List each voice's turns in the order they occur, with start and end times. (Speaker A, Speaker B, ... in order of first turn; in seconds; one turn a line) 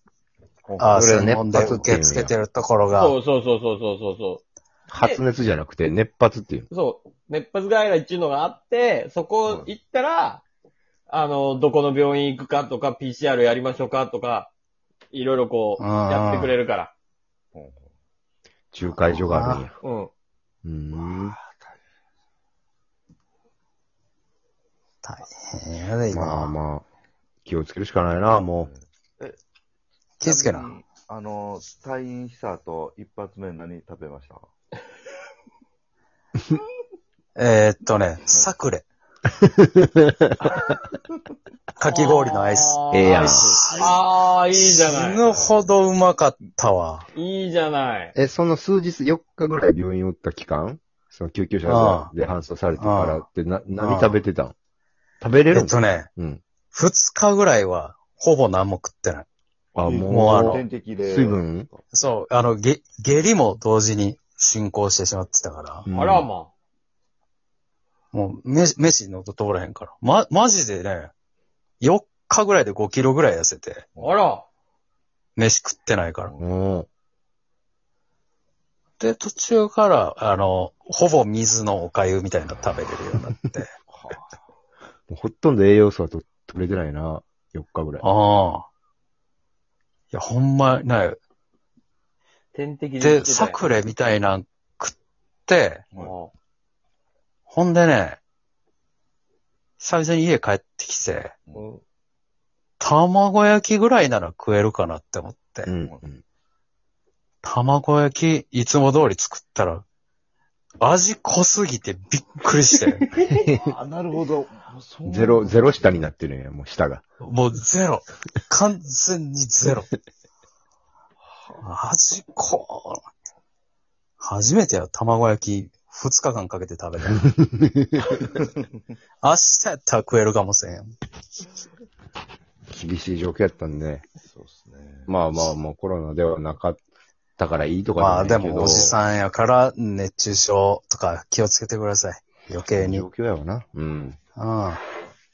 Speaker A: 0.6-1.0
Speaker B: 0.8-3.2
Speaker C: 0.9-2.3
Speaker D: 2.9-4.4
Speaker C: 4.9-6.7
Speaker D: 6.7-10.4
Speaker D: 11.1-14.5
Speaker D: 15.1-16.9
Speaker B: 15.8-16.5
Speaker A: 17.5-17.9
Speaker C: 18.7-19.8
Speaker B: 19.3-19.6
Speaker D: 19.8-20.1
Speaker C: 20.6-21.4
Speaker A: 21.0-21.7
Speaker B: 25.0-26.5
Speaker C: 26.1-26.8
Speaker C: 27.4-28.7
Speaker A: 28.6-29.4
Speaker B: 30.2-30.7
Speaker A: 30.2-34.5
Speaker B: 37.4-38.8
Speaker C: 39.4-40.5
Speaker B: 41.8-44.0
Speaker D: 41.8-45.3
Speaker C: 42.9-43.6
Speaker B: 44.5-47.1
Speaker D: 47.1-48.1
Speaker C: 48.1-54.5
Speaker B: 51.6-52.1
Speaker B: 52.7-53.2
Speaker B: 53.8-54.2
Speaker C: 55.2-56.4
Speaker B: 55.5-56.1
Speaker B: 56.7-59.3
Speaker C: 59.7-61.7
Speaker A: 59.8-61.8
Speaker B: 60.1-60.6
Speaker B: 61.9-65.9
Speaker C: 65.9-66.3
Speaker D: 65.9-66.5
Speaker B: 68.1-71.1
Speaker B: 71.8-73.9
Speaker D: 74.0-74.4
Speaker B: 75.3-76.3
Speaker C: 76.4-76.9
Speaker B: 79.0-83.7
Speaker A: 83.9-84.3
Speaker C: 85.1-88.0
Speaker B: 88.0-88.7
Speaker B: 90.1-91.2
Speaker D: 92.5-93.6
Speaker B: 93.0-94.9
Speaker B: 95.5-95.8
Speaker D: 96.0-96.3
Speaker B: 97.5-98.2
Speaker B: 99.8-101.3
Speaker D: 101.5-101.8
Speaker B: 102.8-105.7
Speaker C: 105.6-106.2
Speaker B: 107.4-109.8
Speaker B: 110.8-113.1
Speaker D: 113.2-113.4
Speaker C: 113.4-113.7
Speaker A: 113.6-116.0
Speaker C: 115.0-117.0
Speaker B: 117.2-119.9
Speaker B: 121.6-123.0
Speaker B: 124.2-127.3
Speaker C: 127.5-128.0
Speaker B: 129.2-130.9
Speaker C: 132.7-134.0
Speaker A: 134.2-135.1
Speaker C: 135.1-136.8
Speaker C: 137.4-138.9
Speaker B: 138.0-143.1
Speaker C: 142.7-144.2
Speaker B: 144.3-144.8